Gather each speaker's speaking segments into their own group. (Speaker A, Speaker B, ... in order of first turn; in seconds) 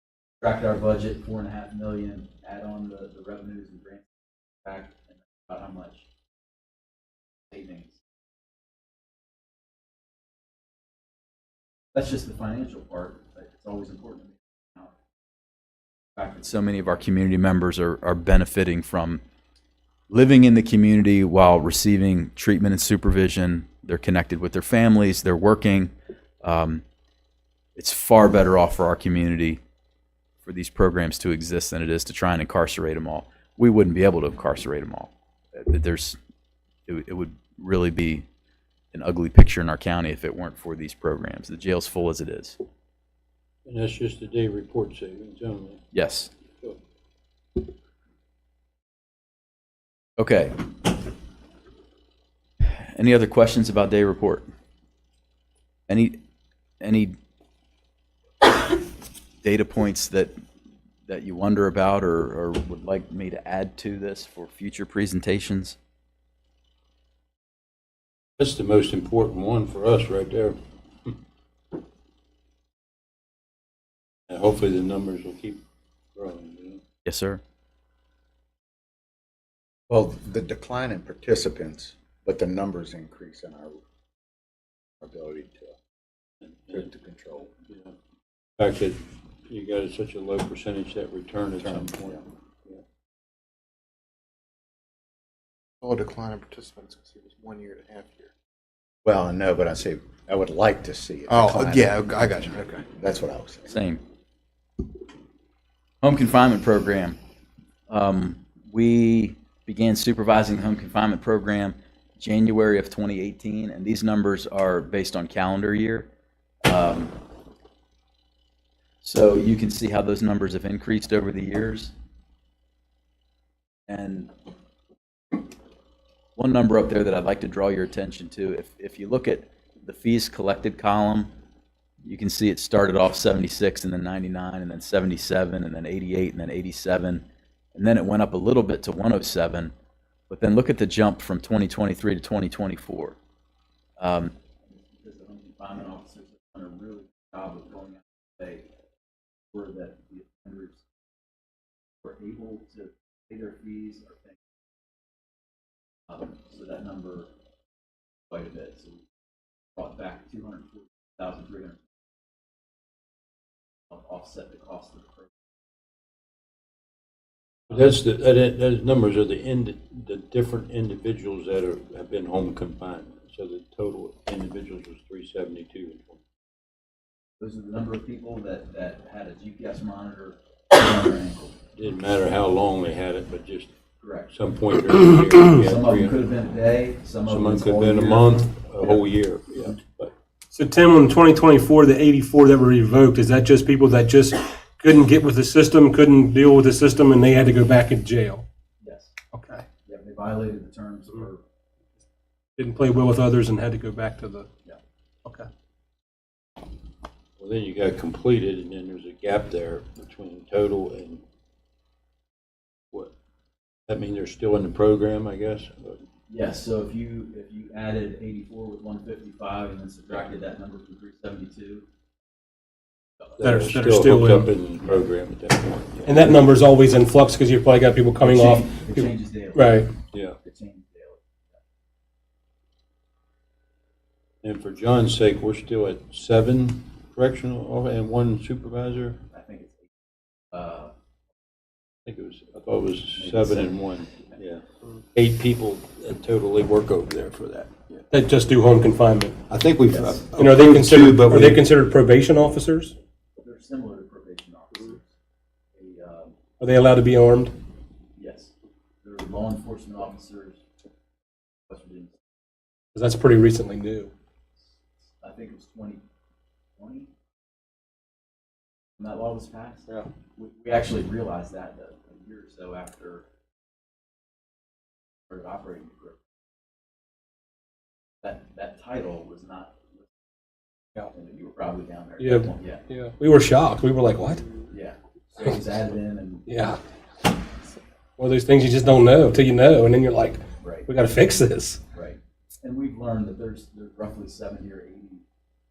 Speaker A: 0.4-4.1, 4.6-6.1, 7.5-8.0, 11.9-15.0, 16.2-19.2, 20.1-26.8, 27.8-29.6, 30.4-36.2, 36.9-38.3, 38.9-42.6, 45.9-46.3, 50.2-50.7, 52.6-54.5, 55.9-56.2, 56.8-57.2, 59.4-60.4, 61.1-65.8, 77.0-77.4, 103.7-104.0, 106.0-107.2, 107.9-116.1, 116.7-117.2, 119.0-121.9, 123.9-124.3, 126.4-131.3, 132.0-139.7, 140.3-143.2, 144.0-148.7, 149.5-150.8, 152.0-154.4, 156.1-157.3, 158.3-159.1, 159.8-161.9, 163.9-165.3, 177.4-181.6, 184.0-184.3, 185.5-189.0, 198.8-199.1, 199.9-201.4, 216.3-221.9, 228.2-231.4, 239.3-239.9, 240.5-240.9, 243.2-244.4, 249.9-250.2, 253.4-255.1, 255.8-256.4, 258.2-260.6, 261.7-262.2, 265.2-266.0, 266.8-267.1, 269.0-273.2, 275.3-276.2, 278.2-280.1, 281.1-282.8, 284.7-286.5, 290.6-290.9, 291.9-295.2
Speaker B: 43.7-45.8, 68.4-71.1, 74.3-75.6, 76.2-76.8, 86.4-86.8, 87.7-87.9, 88.6-92.8, 167.7-176.2, 181.8-183.7, 184.3-186.1, 187.3-190.1, 207.4-211.2, 213.9-216.0, 223.4-226.3, 230.1-230.4, 234.4-239.2, 242.1-244.6, 245.2-247.8, 249.5-251.6
Speaker C: 79.9-83.8, 85.0-85.8, 86.7-87.5, 91.6-92.2, 99.0-103.7
Speaker D: 95.8-98.3, 101.3-102.9
Speaker E: 190.5-198.5, 199.3-199.7, 202.6-204.5, 223.4-224.5, 226.1-229.9, 248.1-249.4, 250.3-252.9, 256.6-257.5, 262.9-264.1, 282.2-284.7, 286.5-286.8, 288.2-291.8